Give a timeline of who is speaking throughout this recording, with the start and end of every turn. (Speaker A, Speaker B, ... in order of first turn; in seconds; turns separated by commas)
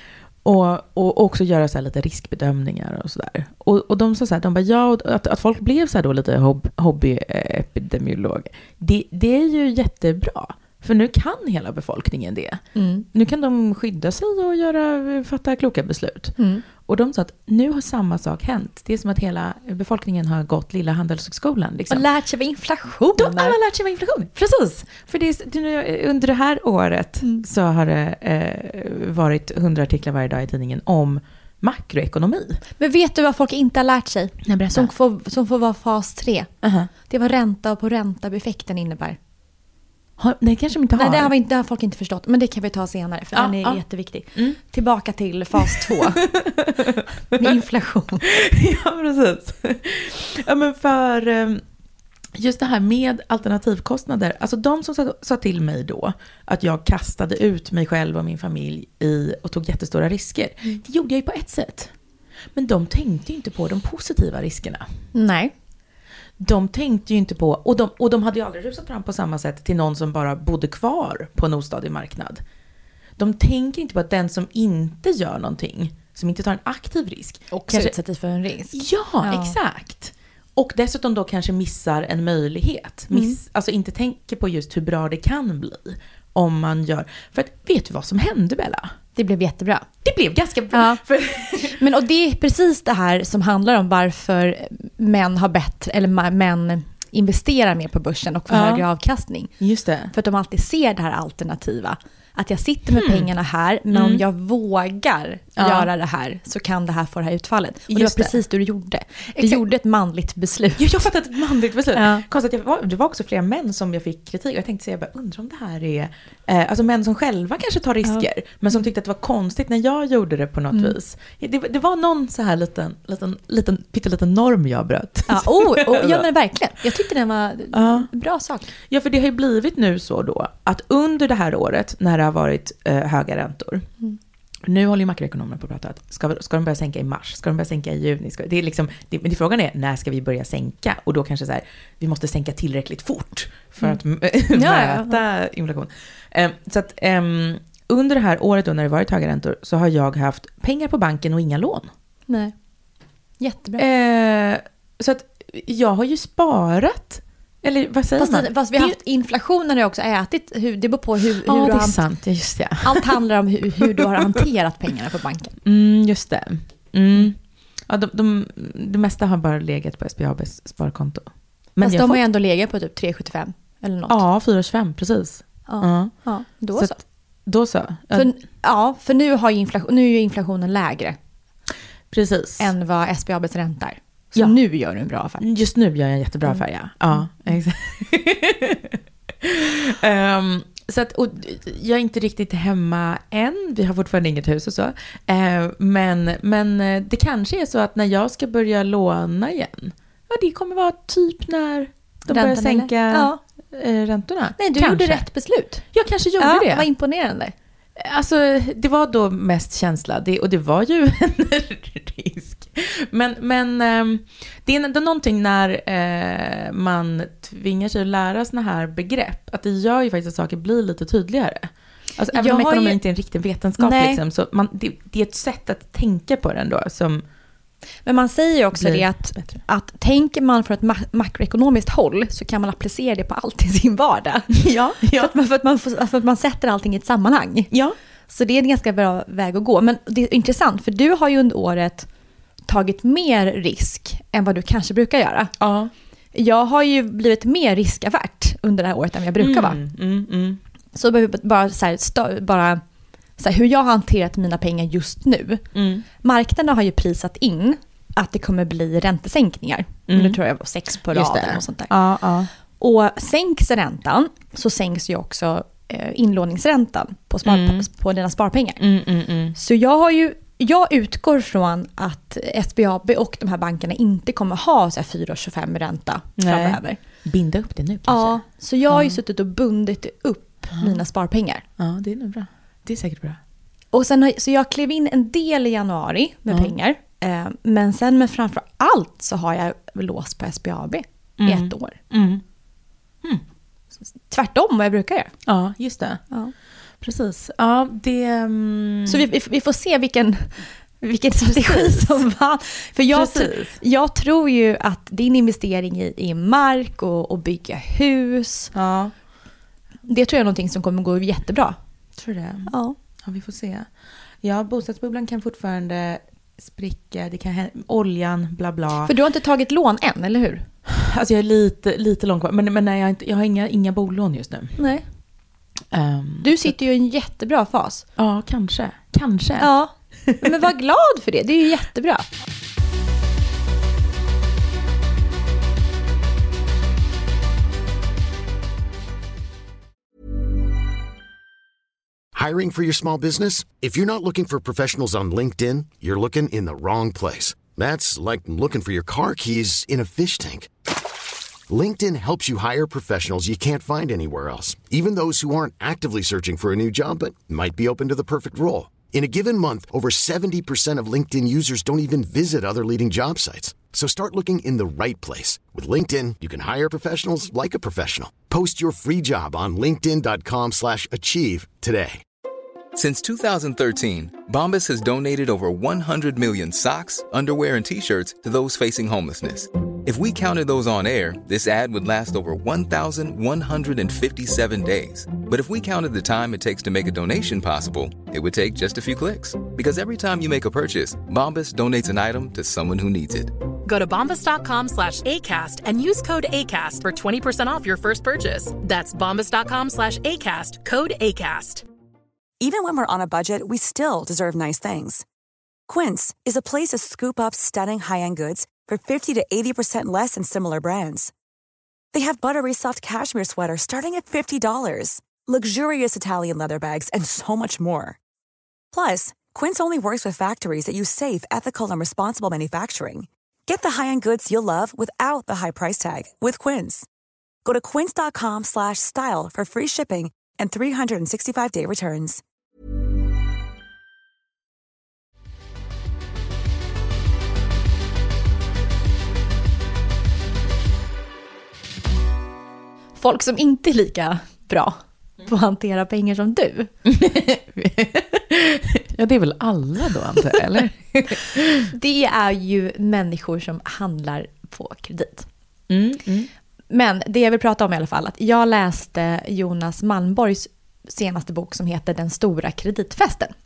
Speaker A: 0.4-12.6, Speaker B: 12.7-13.1, Speaker A: 13.1-22.1, Speaker B: 16.4-16.6, Speaker B: 21.9-23.6, Speaker A: 23.1-32.6, Speaker B: 32.8-36.5, Speaker A: 34.4-34.9, Speaker A: 36.6-36.9, Speaker B: 37.1-39.2, Speaker A: 40.2-41.3, Speaker B: 40.9-46.2, Speaker A: 43.3-43.8, Speaker A: 44.3-44.6, Speaker A: 45.6-47.5, Speaker B: 47.3-48.3, Speaker A: 48.2-51.6, Speaker A: 52.3-61.9, Speaker A: 62.5-64.9, Speaker B: 65.1-65.5, Speaker A: 66.4-72.4, Speaker A: 73.2-77.9, Speaker B: 77.5-79.5, Speaker A: 78.7-88.9, Speaker B: 83.1-83.4, Speaker B: 89.1-89.9, Speaker A: 90.0-91.8, Speaker B: 90.7-91.0, Speaker B: 91.6-99.5, Speaker A: 98.5-98.8, Speaker A: 99.6-100.1, Speaker B: 100.1-111.0, Speaker A: 103.0-103.3, Speaker A: 103.9-104.2, Speaker A: 105.6-105.9, Speaker A: 107.9-108.4, Speaker A: 109.3-109.6, Speaker A: 110.8-126.2, Speaker B: 111.9-112.2, Speaker B: 125.3-128.7, Speaker A: 127.7-128.1, Speaker A: 128.8-133.9, Speaker A: 134.6-151.9, Speaker B: 144.5-145.2, Speaker B: 152.3-152.5, Speaker B: 153.4-153.8, Speaker A: 153.8-159.0, Speaker B: 158.2-162.1, Speaker A: 161.4-163.1, Speaker B: 162.8-165.6, Speaker A: 165.6-172.2, Speaker B: 171.8-174.2, Speaker A: 174.1-176.1, Speaker B: 175.7-177.0, Speaker A: 176.7-178.3, Speaker B: 178.1-181.2, Speaker A: 182.1-182.7, Speaker B: 182.6-185.4, Speaker A: 185.4-205.2, Speaker B: 202.3-203.4, Speaker B: 204.6-205.8, Speaker A: 205.8-206.9, Speaker B: 206.4-207.5, Speaker A: 207.9-227.2, Speaker B: 222.3-223.0, Speaker B: 223.8-224.2, Speaker B: 228.0-237.7, Speaker A: 228.7-229.6, Speaker A: 234.5-235.3, Speaker A: 237.7-237.9, Speaker B: 238.3-242.1, Speaker B: 242.7-245.5, Speaker A: 245.6-245.9, Speaker B: 246.3-249.8, Speaker A: 249.4-250.6, Speaker B: 250.9-252.8, Speaker B: 253.4-255.6, Speaker A: 255.7-256.0, Speaker B: 256.2-261.9, Speaker A: 260.1-260.4, Speaker A: 261.1-262.5, Speaker B: 262.8-268.8, Speaker A: 267.4-267.8, Speaker A: 268.8-269.6, Speaker B: 269.5-277.0, Speaker A: 276.4-279.2, Speaker B: 278.1-281.6, Speaker A: 281.8-283.4, Speaker B: 283.9-291.9, Speaker A: 291.4-292.4, Speaker B: 294.3-295.3, Speaker A: 295.4-296.2, Speaker A: 297.0-299.2, Speaker B: 299.1-308.7, Speaker A: 301.4-302.2, Speaker A: 303.1-303.8, Speaker A: 308.7-309.1, Speaker B: 310.1-311.8, Speaker A: 312.2-313.9, Speaker B: 312.6-312.9, Speaker A: 314.4-319.1, Speaker B: 319.0-320.6, Speaker A: 320.9-324.8, Speaker B: 324.8-325.0, Speaker A: 325.9-326.7, Speaker B: 326.4-328.0, Speaker A: 328.1-329.7, Speaker B: 329.6-332.2, Speaker A: 330.3-330.6, Speaker C: 342.3-350.7, Speaker C: 351.7-372.2, Speaker D: 372.9-393.6, Speaker E: 393.8-401.8, Speaker F: 402.6-405.2, Speaker F: 405.9-411.3, Speaker F: 412.1-418.2, Speaker F: 418.9-427.1, Speaker F: 427.6-432.4, Speaker B: 443.2-446.9, Speaker A: 447.0-451.9, Speaker B: 451.9-455.5, Speaker A: 455.9-456.5, Speaker B: 456.9-463.5